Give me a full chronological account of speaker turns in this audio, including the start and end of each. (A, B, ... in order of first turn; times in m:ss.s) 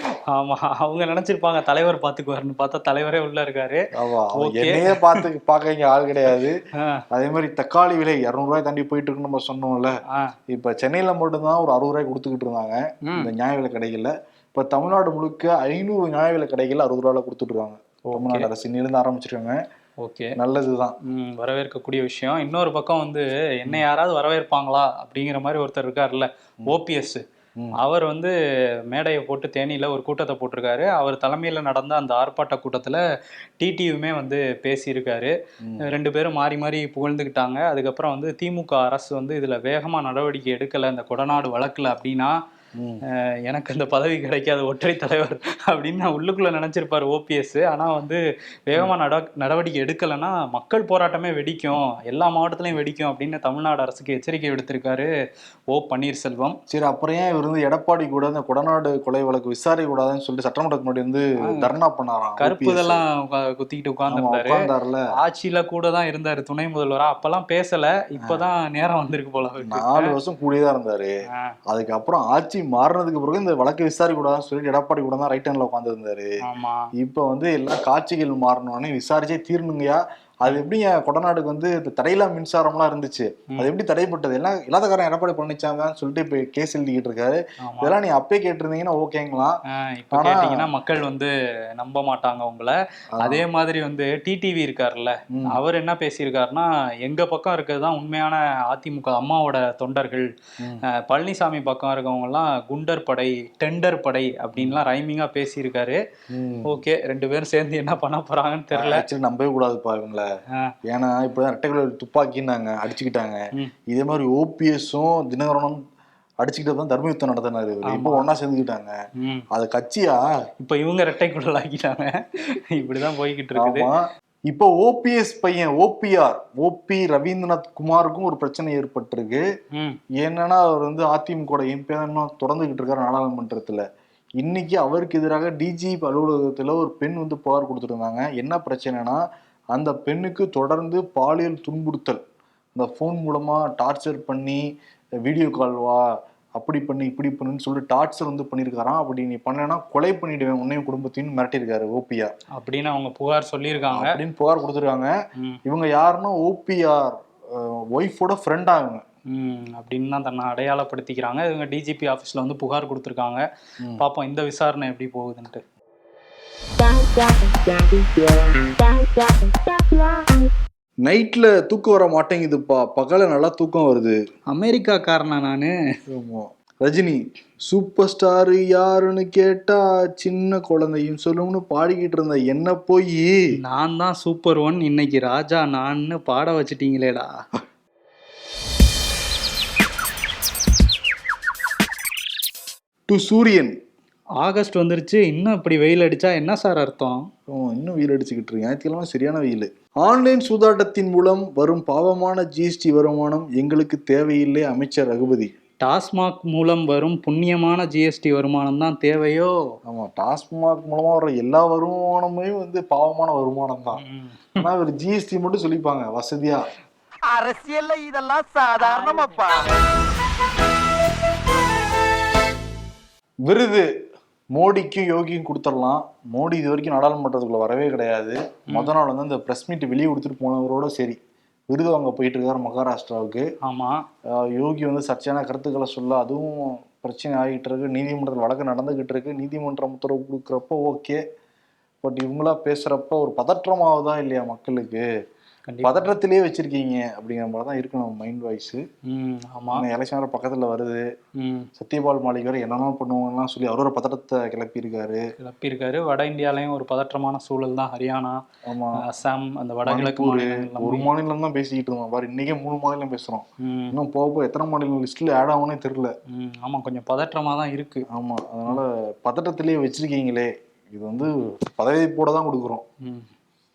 0:00.2-0:05.2 A
0:04.0-0:06.6 B
0:06.7-0:07.0 A
0:07.1-0:10.0 B
0:10.1-0:10.3 A
0:10.5-0:19.6 B
0:13.0-0:13.3 A
0:18.1-0:18.5 A
0:20.0-0:20.4 A
0:20.4-0:21.0 B
0:21.0-0:27.2 A
0:27.8-0:28.3 A
0:28.9-0:33.0 A
0:33.6-0:42.4 A
0:42.8-0:43.0 B
0:43.1-0:55.1 A
0:55.7-0:56.6 A
0:56.7-1:03.0 B
1:01.4-1:01.7 A
1:02.4-1:10.2 A
1:04.1-1:05.1 B
1:09.6-1:11.2 B
1:11.7-1:16.4 B
1:16.4-1:16.9 A
1:17.0-1:29.6 B
1:27.6-1:28.0 A
1:29.7-1:40.3 A
1:30.1-1:30.7 B
1:33.1-1:33.5 B
1:40.8-1:46.0 A
1:44.6-1:44.8 B
1:46.3-1:46.8 B
1:46.7-1:49.0 A
1:48.7-1:50.3 B
1:50.9-1:55.8 B
1:56.4-1:59.0 B
1:57.9-1:58.2 A
1:59.2-1:59.4 A
1:59.5-2:00.2 B
2:00.6-2:03.9 A
2:03.6-2:09.4 B
2:10.2-2:13.8 B
2:14.4-2:19.2 B
2:19.7-2:22.2 B
2:22.7-2:24.7 B
2:25.2-2:32.3 B
2:32.6-2:34.2 A
2:33.9-2:35.1 B
2:35.6-2:39.0 B
2:39.3-2:43.4 A
2:44.0-2:45.6 A
2:46.8-2:50.5 C
2:51.0-2:54.2 B
2:54.5-2:55.7 A
2:56.1-3:03.5 B
3:03.5-3:07.4 A
3:13.1-3:13.8 B
3:14.4-3:17.3 A
3:17.5-3:25.5 B
3:25.8-3:29.6 A
3:29.9-3:34.0 B
3:34.0-3:34.7 A
3:34.6-3:36.7 B
3:37.3-3:39.7 C
3:43.4-3:43.9 B
3:44.6-3:53.5 B
3:53.6-3:54.0 A
3:54.3-4:01.2 B
4:02.0-4:05.1 B
4:05.7-4:06.1 A
4:05.8-4:08.8 B
4:09.1-4:09.9 A
4:09.7-4:11.1 B
4:11.4-4:11.7 A
4:11.8-4:15.2 B
4:15.4-4:18.4 A
4:18.7-4:19.0 B
4:19.0-4:21.1 A
4:19.8-4:26.1 B
4:23.6-4:24.0 A
4:26.3-4:28.1 A
4:28.1-4:32.8 B
4:33.0-4:33.3 A